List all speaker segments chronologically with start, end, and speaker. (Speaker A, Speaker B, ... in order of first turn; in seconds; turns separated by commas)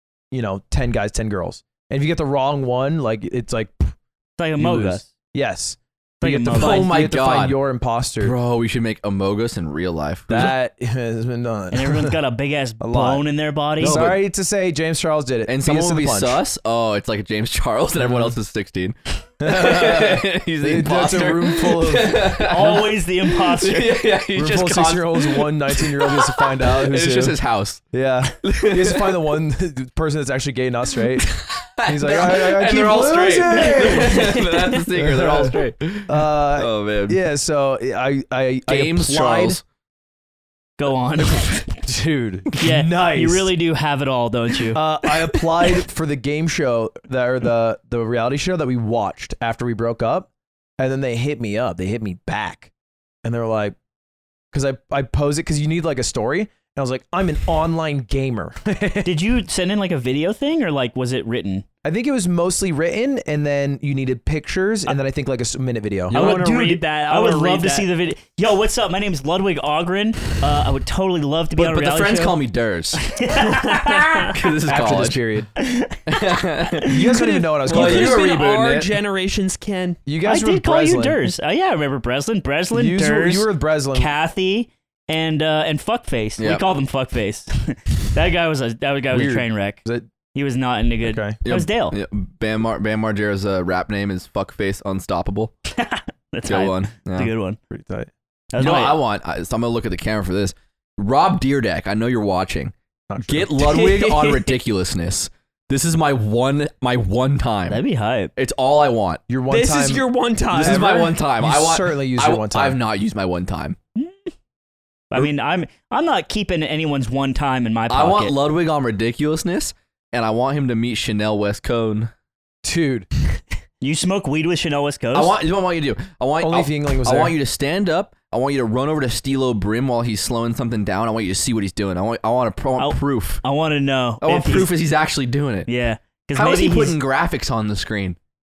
Speaker A: 0.3-4.0, Speaker B: 4.4-5.1, Speaker A: 4.6-8.4, Speaker B: 6.2-6.9, Speaker C: 6.5-7.6, Speaker C: 8.2-10.5, Speaker A: 10.3-12.2, Speaker B: 11.7-14.1, Speaker A: 12.8-13.2, Speaker C: 13.8-14.2, Speaker A: 13.8-16.4, Speaker C: 15.5-27.8, Speaker A: 18.0-18.3, Speaker A: 19.4-22.8, Speaker B: 22.4-24.0, Speaker A: 24.3-27.4, Speaker A: 27.9-31.3, Speaker C: 28.4-29.2, Speaker C: 31.2-37.2, Speaker A: 31.9-39.6, Speaker D: 34.1-34.7, Speaker C: 38.7-39.6, Speaker B: 40.8-41.6, Speaker A: 41.8-43.5, Speaker B: 42.6-44.8, Speaker A: 44.7-52.7, Speaker A: 53.2-53.8, Speaker A: 54.5-59.1, Speaker B: 59.0-61.6, Speaker A: 61.8-66.4, Speaker D: 66.1-67.9, Speaker B: 66.1-72.4, Speaker C: 71.5-73.0, Speaker B: 73.0-74.3, Speaker D: 73.5-74.3, Speaker C: 74.3-75.2, Speaker A: 74.7-75.5, Speaker B: 75.6-76.0, Speaker C: 76.1-77.0, Speaker A: 76.8-78.3, Speaker D: 77.1-80.0, Speaker C: 77.7-78.9, Speaker A: 80.1-81.3, Speaker B: 80.2-89.8, Speaker A: 82.7-84.1, Speaker C: 86.4-86.7, Speaker A: 89.1-90.1, Speaker B: 90.3-92.0, Speaker A: 91.0-91.4, Speaker C: 91.4-95.5, Speaker B: 95.7-97.6, Speaker C: 96.5-97.3, Speaker A: 97.7-98.1, Speaker B: 98.5-99.0, Speaker C: 98.6-107.8, Speaker A: 103.1-103.6, Speaker D: 103.6-104.6, Speaker B: 107.7-108.3, Speaker C: 108.4-109.2, Speaker A: 109.3-112.8, Speaker D: 109.5-111.0, Speaker C: 110.5-113.8, Speaker B: 115.1-118.3, Speaker C: 117.9-122.1, Speaker A: 122.6-123.1, Speaker B: 123.8-125.4, Speaker C: 125.1-133.4, Speaker A: 126.4-127.3, Speaker B: 132.8-134.7, Speaker C: 134.2-135.7, Speaker B: 135.7-137.0, Speaker C: 136.4-138.2